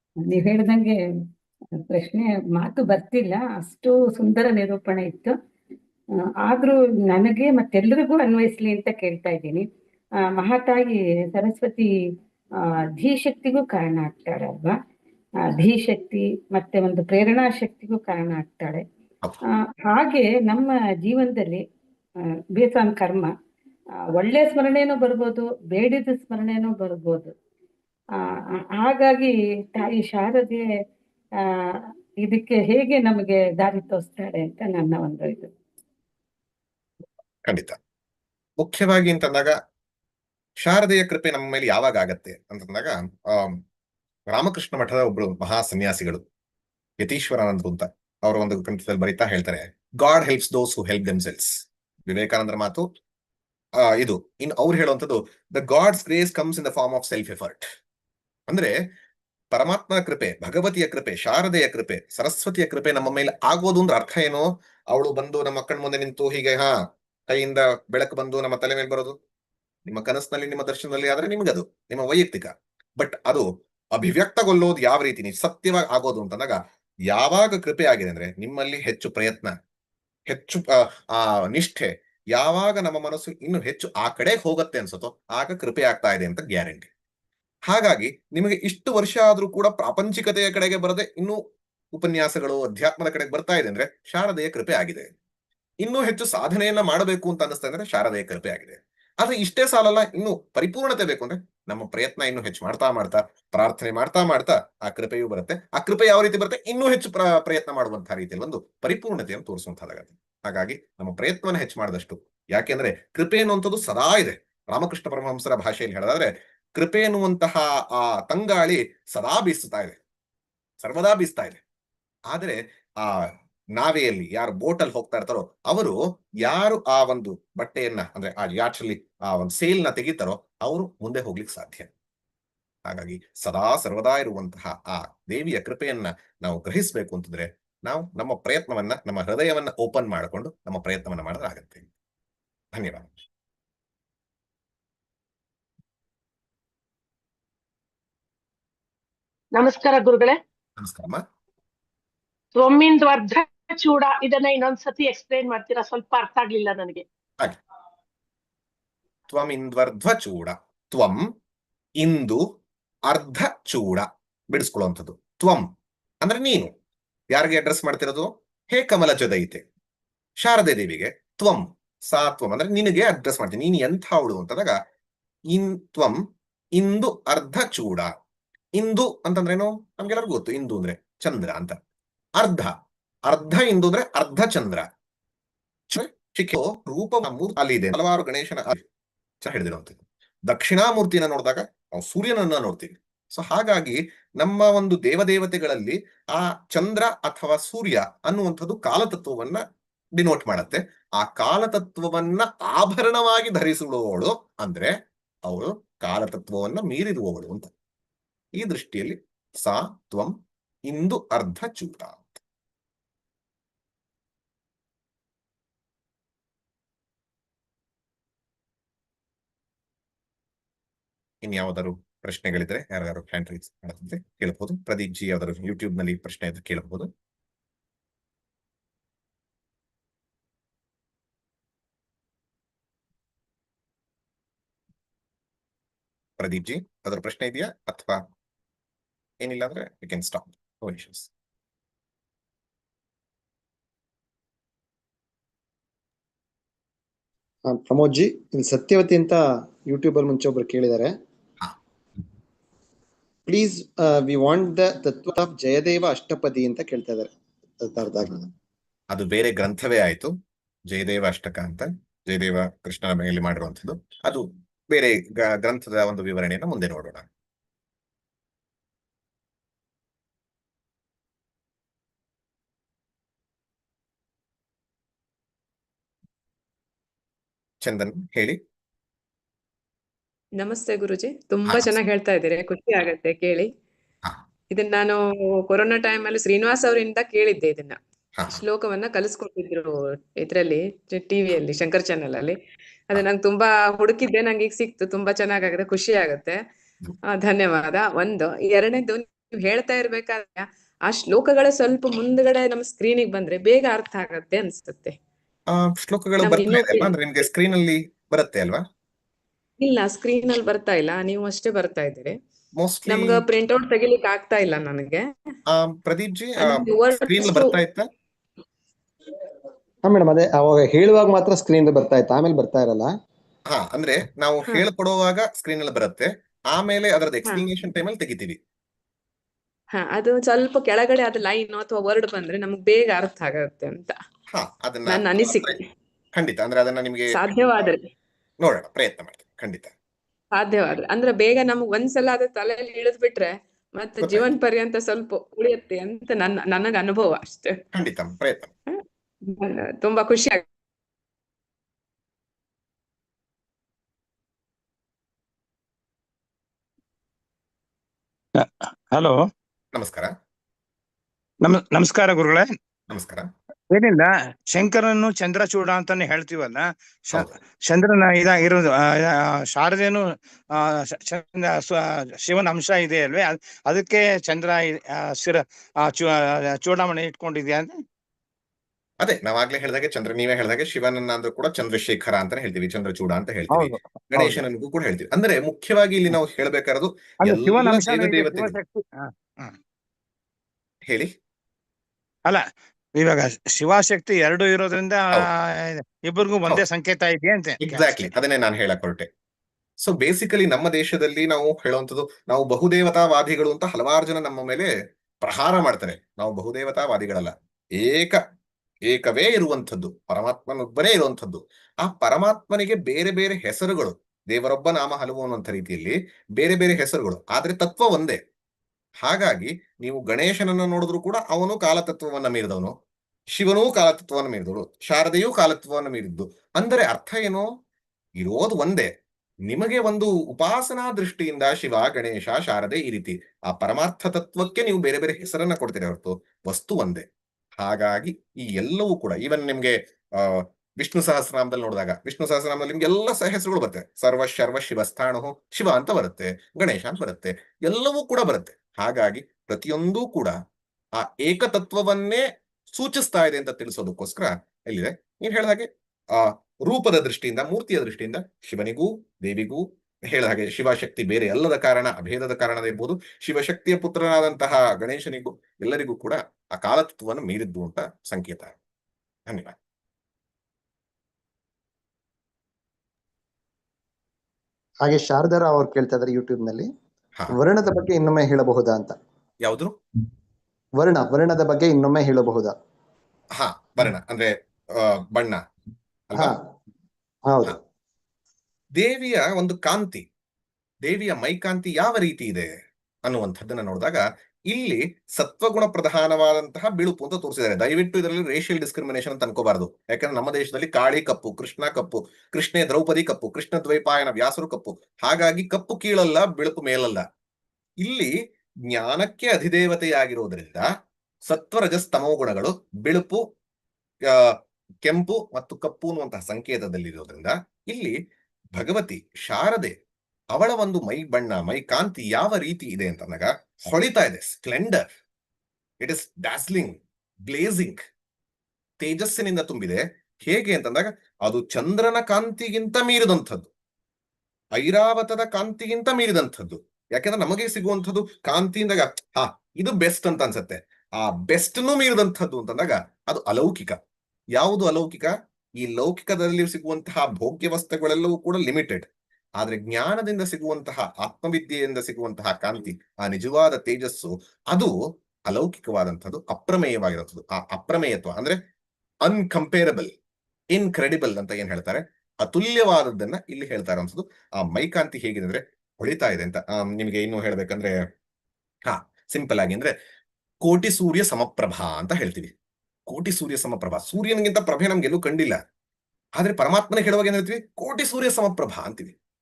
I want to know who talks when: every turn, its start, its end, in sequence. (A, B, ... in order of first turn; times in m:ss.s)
0:00.3-0:00.9 A
0:01.9-0:05.3 A
0:06.4-0:09.6 A
0:10.4-0:11.9 A
0:13.0-0:14.7 A
0:15.5-0:18.8 A
0:19.9-0:21.6 A
0:22.6-0:23.3 A
0:24.2-0:27.3 A
0:28.8-0:30.6 A
0:32.2-0:35.5 A
0:37.4-0:37.8 B
0:38.6-0:39.5 B
0:40.6-0:43.6 B
0:44.3-0:46.2 B
0:47.0-0:51.5 B
0:52.1-0:52.8 B
0:53.9-0:57.6 B
0:59.5-1:06.7 B
1:07.3-1:09.2 B
1:09.9-1:19.5 B
1:20.3-1:26.9 B
1:27.7-1:31.4 B
1:31.9-1:35.1 B
1:35.8-2:00.0 B
2:00.8-2:01.6 B
2:02.3-2:11.9 B
2:12.8-2:21.9 B
2:22.7-2:23.1 B
2:29.5-2:30.4 C
2:30.8-2:31.2 B
2:32.5-2:37.0 C
2:39.3-2:41.2 B
2:42.0-2:42.4 B
2:43.1-2:45.6 B
2:46.2-2:46.7 B
2:47.3-2:49.6 B
2:50.4-2:54.8 B
2:55.5-2:56.2 B
2:56.8-2:58.1 B
2:58.8-3:01.8 B
3:02.4-3:02.7 B
3:03.3-3:04.8 B
3:05.9-3:08.8 B
3:09.4-3:19.6 B
3:20.2-3:24.9 B
3:25.4-3:27.7 B
3:28.5-3:30.3 B
3:30.9-3:32.4 B
3:41.4-3:47.1 B
3:56.4-3:58.2 B
3:59.4-4:01.3 B
4:07.7-4:11.1 D
4:13.5-4:18.5 D
4:19.1-4:20.3 B
4:20.9-4:27.2 B
4:37.8-4:38.6 B
4:40.6-4:43.7 E
4:41.7-4:42.0 B
4:44.7-4:52.6 E
4:53.1-4:56.6 E
4:57.3-5:05.1 E
5:05.7-5:08.8 B
5:06.4-5:07.1 E
5:09.8-5:12.3 E
5:12.8-5:13.4 B
5:13.1-5:15.2 E
5:15.7-5:18.0 B
5:16.6-5:17.8 E
5:20.0-5:23.1 D
5:23.7-5:28.6 B
5:29.9-5:34.2 E
5:34.5-5:35.7 B
5:35.1-5:35.8 E
5:36.4-5:37.9 B
5:37.3-5:38.0 E
5:38.6-5:39.9 B
5:40.6-5:47.8 E
5:44.2-5:44.5 B
5:47.9-5:48.7 B
5:49.5-5:50.6 E
5:58.6-5:59.4 F
5:59.9-6:00.3 B
6:01.6-6:02.8 F
6:03.1-6:03.4 B
6:03.9-6:18.0 F
6:19.2-6:28.8 B
6:23.7-6:24.6 F
6:27.4-6:29.8 F
6:32.5-6:38.3 F
6:37.8-6:39.3 B
6:40.0-6:44.9 B
6:45.4-6:48.4 B
6:49.1-6:58.4 B
6:59.2-7:02.9 B
7:03.6-7:07.7 B
7:08.4-7:09.1 B
7:09.7-7:17.2 B
7:17.8-7:30.6 B
7:31.2-7:32.4 B
7:32.9-7:48.8 B
7:49.5-7:49.7 B
7:55.0-7:56.9 D
7:57.5-7:59.2 D
7:59.6-8:00.0 B
8:01.0-8:02.7 D
8:03.6-8:05.6 B
8:07.5-8:07.7 D
8:09.0-8:10.2 B
8:11.0-8:12.7 B
8:13.2-8:27.2 B
8:28.0-8:28.3 B
8:28.9-8:30.9 B
8:31.5-8:33.4 B
8:34.3-8:38.2 B
8:38.7-8:40.0 B
8:40.5-8:45.0 B
8:46.0-8:48.0 B
8:49.0-8:53.7 B
8:54.8-9:04.0 B
9:04.6-9:14.9 B
9:15.5-9:18.6 B
9:19.2-9:20.1 B
9:20.7-9:27.9 B
9:28.8-9:29.9 B
9:30.6-9:32.5 B
9:33.1-9:35.6 B
9:36.4-9:39.2 B